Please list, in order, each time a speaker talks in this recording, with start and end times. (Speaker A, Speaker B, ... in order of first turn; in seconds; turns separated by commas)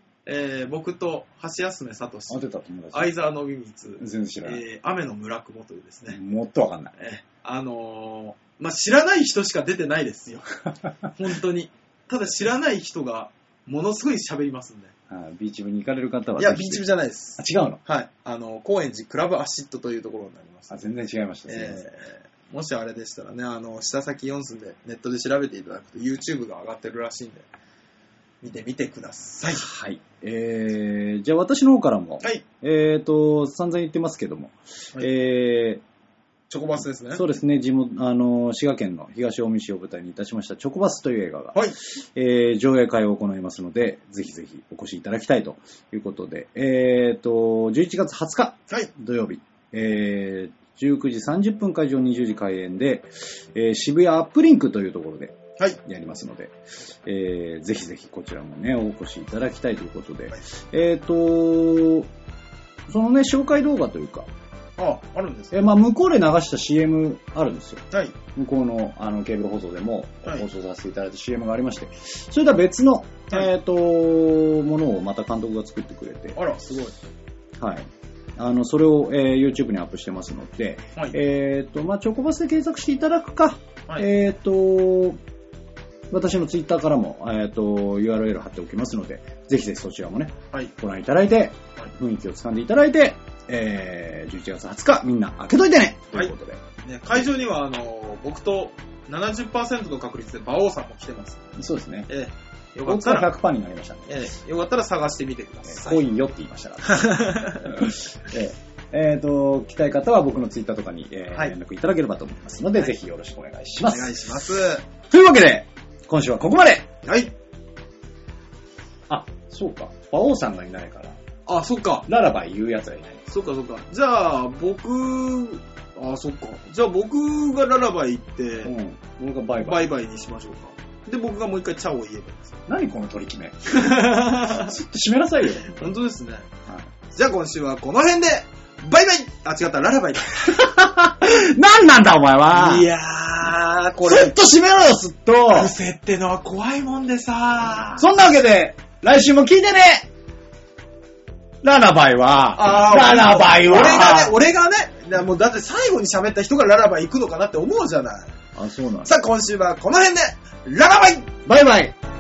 Speaker A: 0.3-6.2, Speaker B: 2.3-3.1, Speaker B: 4.0-4.6, Speaker B: 6.1-6.9, Speaker A: 7.0-14.9, Speaker B: 15.1-17.8, Speaker A: 16.4-20.8, Speaker B: 20.7-21.8, Speaker A: 21.5-27.5, Speaker A: 28.4-29.7, Speaker B: 29.5-35.8, Speaker A: 36.5-37.2, Speaker B: 37.1-62.1, Speaker B: 62.9-64.3, Speaker A: 64.8-65.5, Speaker B: 65.5-76.4, Speaker A: 67.9-68.2, Speaker A: 76.3-77.0, Speaker B: 77.6-85.2, Speaker B: 86.1-96.6, Speaker A: 96.1-101.5, Speaker B: 101.6-102.1, Speaker A: 102.1-103.3, Speaker B: 102.8-104.1, Speaker A: 104.1-106.0, Speaker B: 105.7-114.2, Speaker A: 106.8-107.8, Speaker A: 113.9-114.8, Speaker B: 115.1-116.9, Speaker A: 117.0-117.3, Speaker B: 119.1-121.2, Speaker A: 121.5-122.1, Speaker B: 122.1-123.2, Speaker A: 123.3-128.7, Speaker B: 128.6-129.9, Speaker A: 129.6-132.6, Speaker B: 132.7-135.8, Speaker A: 133.7-134.8, Speaker A: 135.6-136.5, Speaker A: 137.1-140.6, Speaker B: 140.5-142.9, Speaker A: 142.5-144.3, Speaker B: 144.0-145.7, Speaker A: 145.5-148.1, Speaker B: 148.0-150.1, Speaker B: 151.6-154.4, Speaker A: 152.6-158.3, Speaker B: 158.6-159.1, Speaker A: 159.0-161.4, Speaker B: 161.5-161.9